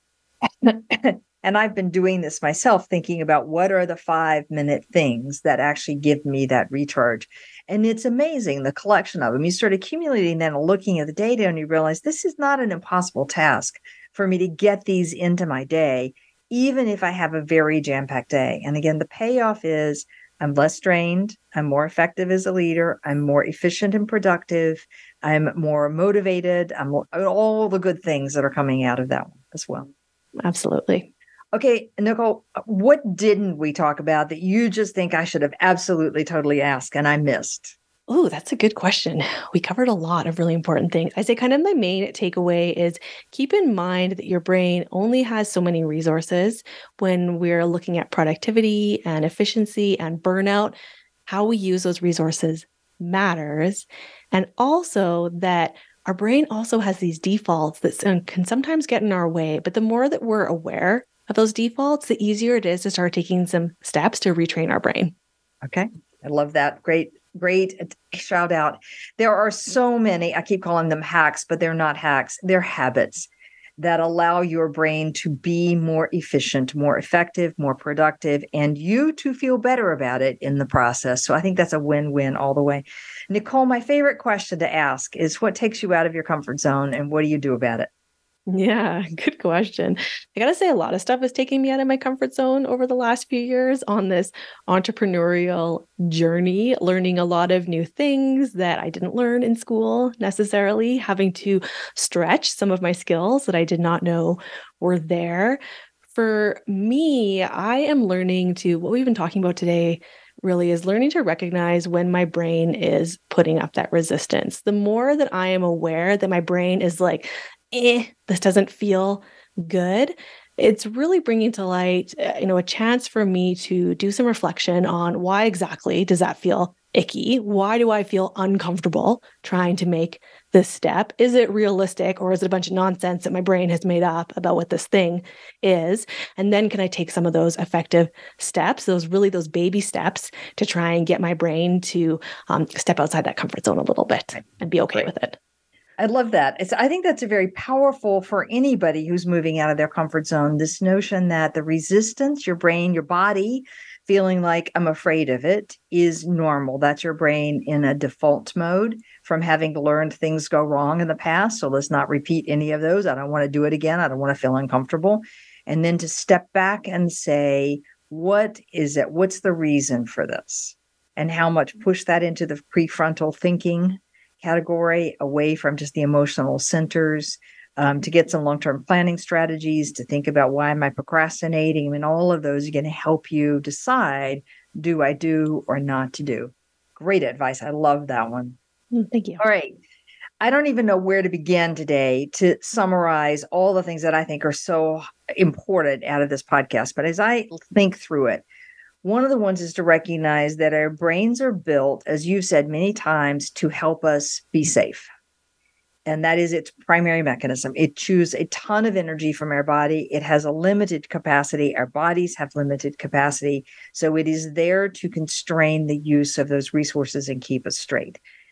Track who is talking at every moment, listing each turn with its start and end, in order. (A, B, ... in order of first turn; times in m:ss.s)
0:00.4-0:29.9 A
0:30.4-0:31.1 B
0:31.5-0:37.7 A
0:38.1-0:50.8 B
0:51.3-1:05.1 B
1:05.6-1:27.9 A
1:28.5-1:45.6 B
1:46.1-2:25.4 B
2:26.0-3:08.6 A
3:08.9-3:09.4 B
3:09.4-3:09.8 A
3:10.4-3:18.4 A
3:19.0-3:25.1 A
3:26.1-3:38.2 A